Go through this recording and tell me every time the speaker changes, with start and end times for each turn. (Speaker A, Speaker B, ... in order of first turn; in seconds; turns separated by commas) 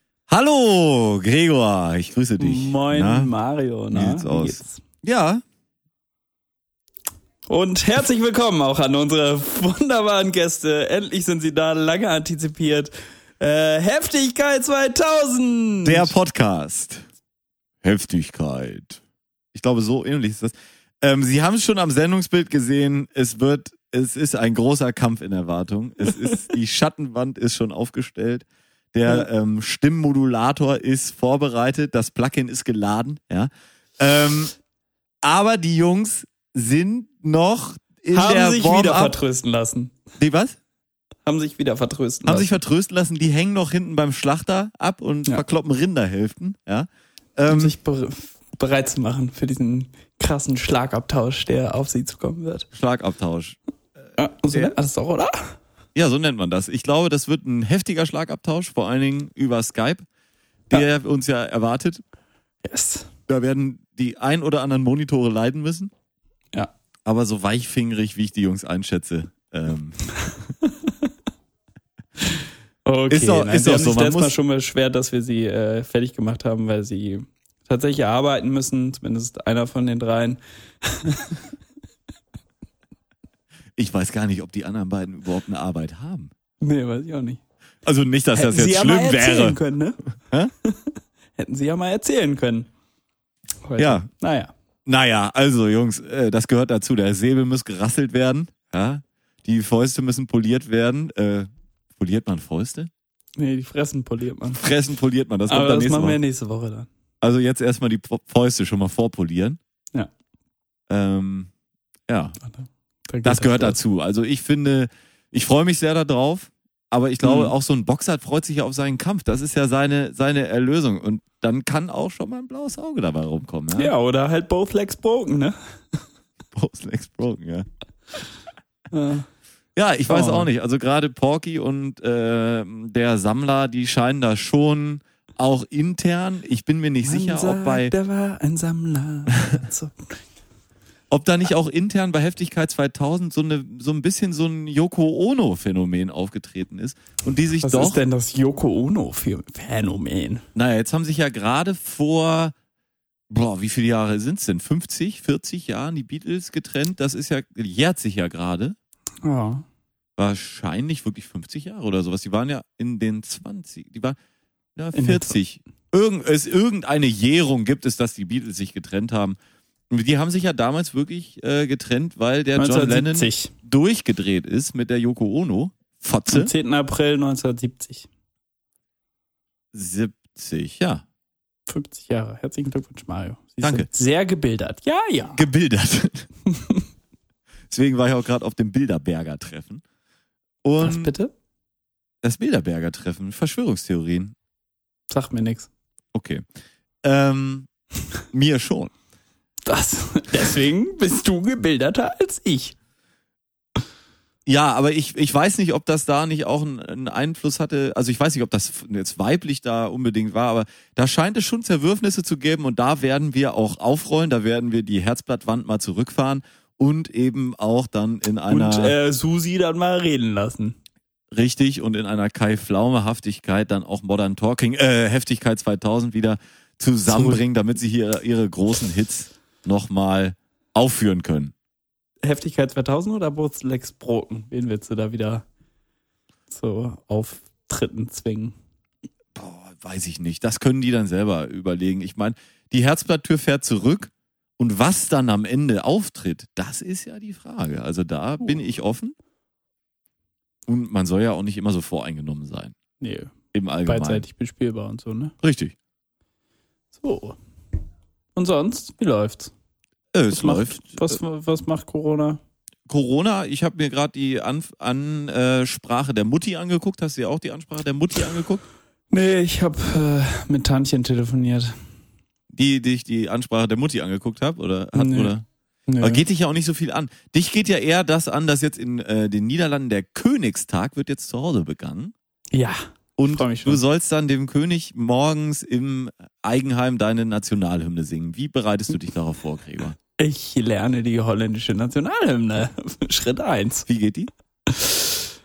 Speaker A: 0.3-3.3, Speaker B: 2.4-4.8, Speaker A: 3.9-5.4, Speaker B: 7.5-16.1, Speaker A: 15.8-17.0, Speaker A: 17.8-19.0, Speaker A: 19.5-34.5, Speaker A: 35.2-39.2, Speaker B: 38.1-40.0, Speaker A: 40.2-40.6, Speaker B: 41.3-42.6, Speaker A: 42.2-47.8, Speaker B: 47.5-52.7, Speaker A: 52.7-54.8, Speaker B: 54.2-55.4, Speaker A: 56.0-60.0, Speaker A: 60.7-62.0, Speaker B: 62.6-63.1, Speaker A: 63.3-65.9, Speaker A: 67.1-70.0, Speaker B: 72.8-81.4, Speaker A: 73.1-74.3, Speaker A: 83.8-86.3, Speaker B: 86.6-87.4, Speaker A: 87.8-89.6, Speaker B: 88.3-90.0, Speaker B: 91.4-92.7, Speaker B: 93.7-94.5, Speaker A: 93.8-94.1, Speaker A: 94.9-102.9, Speaker B: 103.4-104.6, Speaker A: 104.5-106.2, Speaker B: 105.5-106.9, Speaker A: 107.2-109.6, Speaker A: 110.9-111.5, Speaker A: 112.1-112.4, Speaker B: 112.4-113.8, Speaker A: 113.2-123.9, Speaker B: 117.2-117.5, Speaker B: 123.8-126.0, Speaker A: 126.5-127.7, Speaker B: 128.9-129.3, Speaker A: 129.8-137.9, Speaker B: 130.1-130.5, Speaker B: 137.0-139.9, Speaker A: 141.1-148.0, Speaker B: 147.6-150.4, Speaker A: 150.6-152.5, Speaker A: 153.3-158.8, Speaker B: 159.2-159.6, Speaker A: 160.2-164.2, Speaker A: 164.8-169.4, Speaker B: 164.9-165.4, Speaker A: 169.9-176.5, Speaker B: 172.6-173.5, Speaker B: 176.3-178.1, Speaker A: 179.7-181.0, Speaker B: 181.7-185.4, Speaker A: 183.6-183.9, Speaker A: 185.2-186.3, Speaker A: 187.7-189.8, Speaker A: 190.6-191.1, Speaker B: 190.8-191.3, Speaker A: 192.2-194.3, Speaker B: 195.1-195.7, Speaker A: 196.1-196.4, Speaker A: 197.0-197.7, Speaker A: 198.3-198.9, Speaker B: 199.7-202.8, Speaker A: 204.5-218.9, Speaker B: 218.5-220.8, Speaker A: 221.3-231.5, Speaker B: 227.1-227.4, Speaker B: 232.2-235.4, Speaker B: 236.5-238.5, Speaker A: 239.3-249.2, Speaker A: 250.7-252.8, Speaker B: 253.0-253.3, Speaker A: 253.5-254.2, Speaker B: 253.8-255.3, Speaker A: 255.4-255.8, Speaker B: 257.0-257.4, Speaker B: 258.4-259.5, Speaker A: 260.1-261.2, Speaker B: 260.3-262.4, Speaker A: 262.9-268.6, Speaker B: 269.1-271.8, Speaker A: 272.5-275.5, Speaker B: 274.9-275.3, Speaker B: 275.9-276.2, Speaker A: 276.0-282.1, Speaker B: 282.5-283.8, Speaker A: 283.2-290.0, Speaker B: 290.2-293.9, Speaker A: 293.9-294.3, Speaker B: 294.7-295.2